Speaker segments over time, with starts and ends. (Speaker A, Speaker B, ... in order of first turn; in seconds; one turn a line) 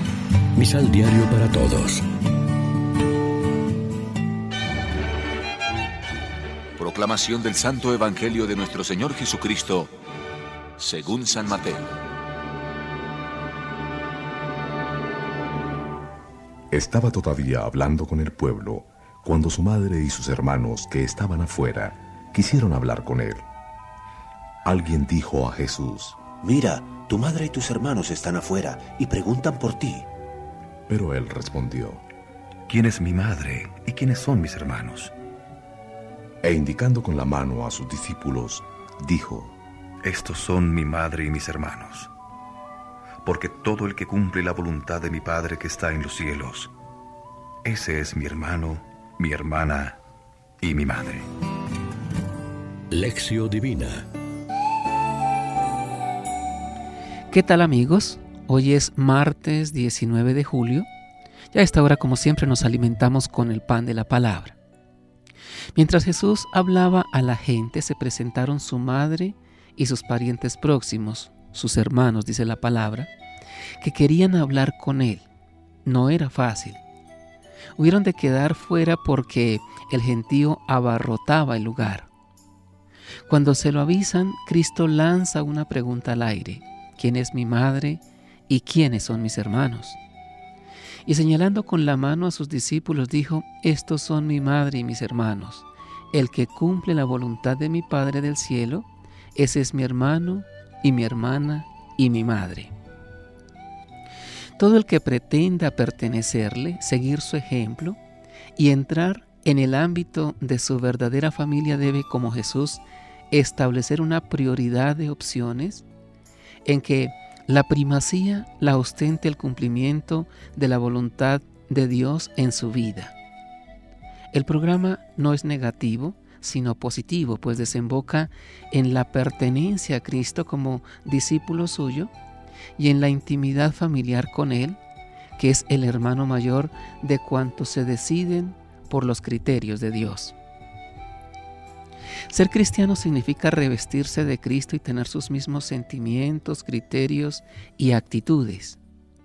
Speaker A: 0.6-2.0
Speaker B: 6.8-9.9
Speaker B: 10.8-11.8
Speaker C: 16.7-23.4
Speaker C: 24.6-26.2
Speaker D: 26.4-30.1
Speaker C: 30.9-32.0
Speaker E: 32.7-35.1
Speaker C: 36.4-39.5
Speaker E: 40.0-42.1
Speaker E: 43.2-46.7
Speaker E: 47.6-50.0
Speaker E: 50.6-51.3
Speaker A: 52.9-54.0
Speaker F: 57.3-60.9
Speaker F: 61.5-64.6
Speaker F: 65.7-73.1
Speaker F: 73.8-75.3
Speaker F: 75.8-76.8
Speaker F: 77.8-82.1
Speaker F: 83.3-90.0
Speaker F: 91.0-102.7
Speaker F: 104.6-108.0
Speaker F: 108.5-115.8
Speaker F: 116.6-123.1
Speaker F: 124.3-132.1
Speaker F: 132.8-134.8
Speaker F: 135.4-140.3
Speaker F: 142.3-148.8